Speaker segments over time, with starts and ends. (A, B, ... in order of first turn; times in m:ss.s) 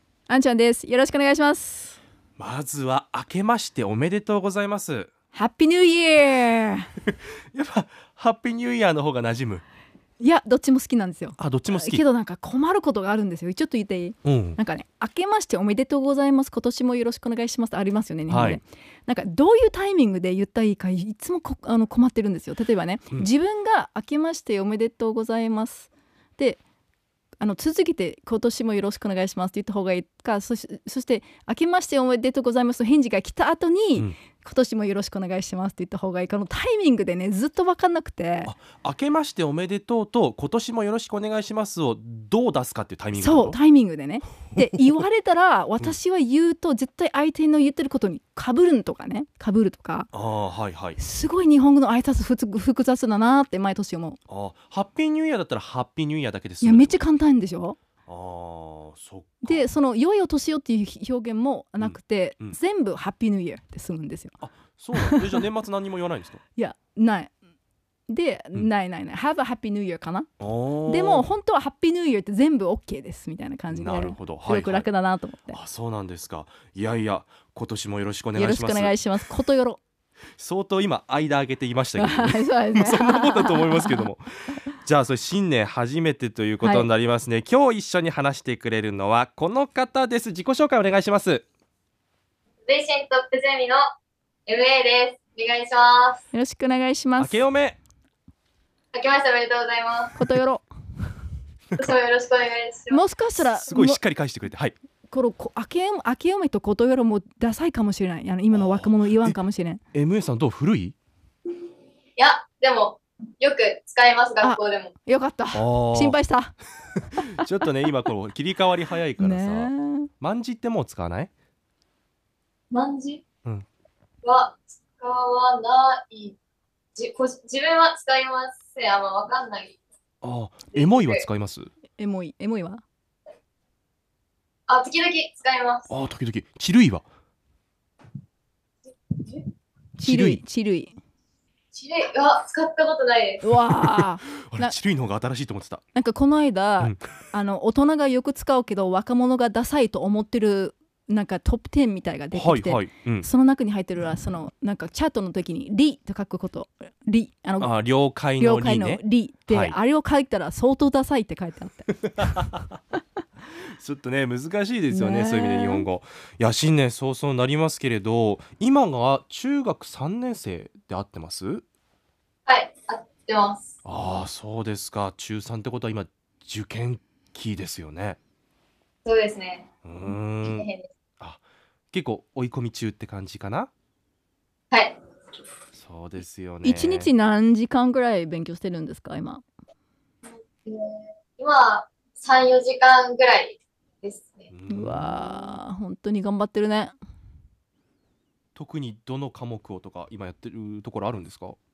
0:00.3-0:02.0 A
0:02.4-0:05.1 B
0:05.3-0:06.9 A
0:07.5-0:09.6 B
0:10.2-0:26.6 A
0:11.4-0:12.0 B
0:14.2-0:14.6 B
0:18.3-0:18.6 B
0:27.4-0:38.5 A
0:38.4-0:43.6 B
0:43.1-0:50.1 A
0:50.1-0:51.0 B
0:51.0-0:54.2 A
0:54.3-0:57.0 B
0:56.6-0:57.8 A
0:58.1-0:59.7 B
0:59.4-1:04.3 A
1:01.8-1:02.6 B
1:04.4-1:06.4 B
1:05.0-1:05.4 A
1:06.6-1:07.3 A
1:08.1-1:10.3 A
1:10.4-1:11.3 B
1:10.8-1:15.6 A
1:13.7-1:14.8 B
1:15.5-1:19.0 B
1:18.3-1:19.8 A
1:20.4-1:31.4 B
1:22.0-1:24.1 A
1:26.6-1:26.9 A
1:32.6-1:33.8 C
1:34.5-1:36.2 C
1:36.3-1:37.4 A
1:37.2-1:37.8 B
1:38.9-1:40.1 C
1:40.2-1:40.7 A
1:41.8-1:43.0 C
1:42.9-1:44.0 A
1:43.4-1:44.8 B
1:45.1-1:49.8 A
1:48.5-1:49.4 B
1:49.9-1:51.0 B
1:52.2-1:54.9 C
1:54.4-1:56.5 A
1:55.5-1:56.2 B
1:57.3-2:01.3 B
1:59.2-2:00.1 A
2:02.7-2:03.2 C
2:04.2-2:06.4 C
2:07.0-2:09.8 C
2:10.2-2:11.7 B
2:10.7-2:11.2 C
2:12.0-2:12.8 A
2:14.7-2:15.9 C
2:15.9-2:17.0 B
2:18.8-2:19.5 C
2:20.0-2:20.9 A
2:20.0-2:20.4 B
2:21.7-2:23.4 C
2:23.4-2:24.8 A
2:23.9-2:25.8 B
2:25.9-2:42.5 A
2:32.3-2:33.3 B
2:37.6-2:39.8 B
2:43.7-2:51.6 B
2:44.9-2:45.9 A
2:52.5-2:53.7 C
2:53.8-2:58.2 B
2:59.0-3:00.9 C
2:59.8-3:00.7 B
3:01.2-3:03.7 B
3:04.7-3:05.0 C
3:05.7-3:07.1 B
3:06.6-3:09.4 A
3:10.3-3:14.5 C
3:14.5-3:15.6 B
3:14.7-3:17.0 A
3:18.5-3:21.6 B